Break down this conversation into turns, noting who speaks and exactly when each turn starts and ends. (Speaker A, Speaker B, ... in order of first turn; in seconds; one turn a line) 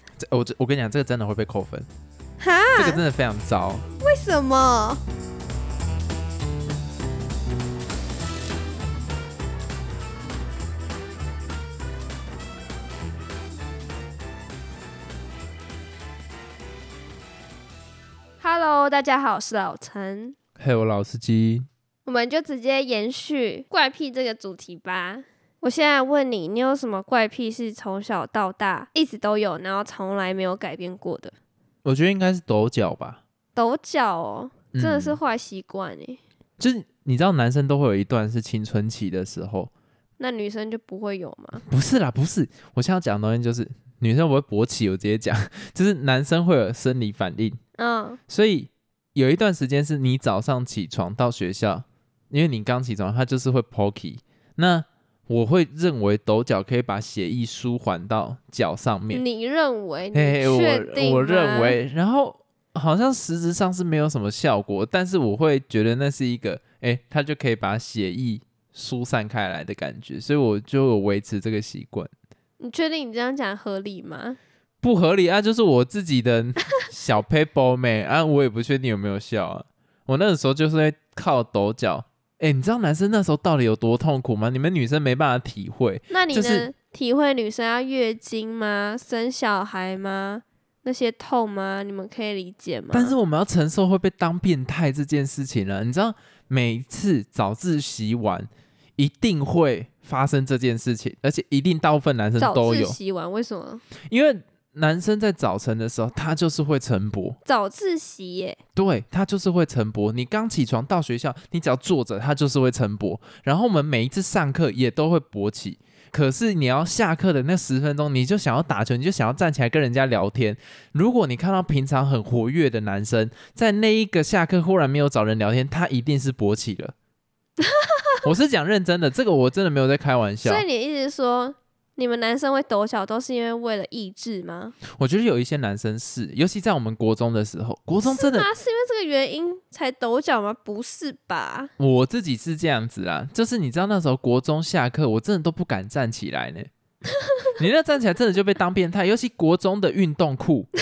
Speaker A: 0.2-1.9
Speaker B: 2.4-3.0
Speaker A: 2.7-3.9
Speaker B: 4.0-5.0
Speaker B: 18.4-20.4
Speaker A: 20.6-21.7
Speaker B: 22.1-31.3
Speaker A: 31.9-33.2
Speaker B: 33.5-36.2
Speaker A: 34.7-35.2
Speaker A: 36.6-39.7
Speaker B: 40.2-41.6
Speaker A: 41.6-47.6
Speaker B: 47.8-48.2
Speaker A: 48.3-59.2
Speaker B: 59.1-61.8
Speaker A: 60.1-72.1
Speaker B: 72.6-74.4
Speaker A: 74.8-86.7
Speaker B: 86.1-93.2
Speaker A: 92.9-103.0
Speaker B: 102.4-103.8
Speaker A: 104.1-107.4
Speaker B: 107.5-108.6
Speaker A: 108.8-126.9
Speaker B: 127.6-128.2
Speaker A: 128.2-130.7
Speaker B: 130.4-134.8
Speaker A: 134.9-138.5
Speaker B: 138.0-141.7
Speaker A: 141.8-146.7
Speaker B: 147.2-147.5
Speaker A: 147.6-150.7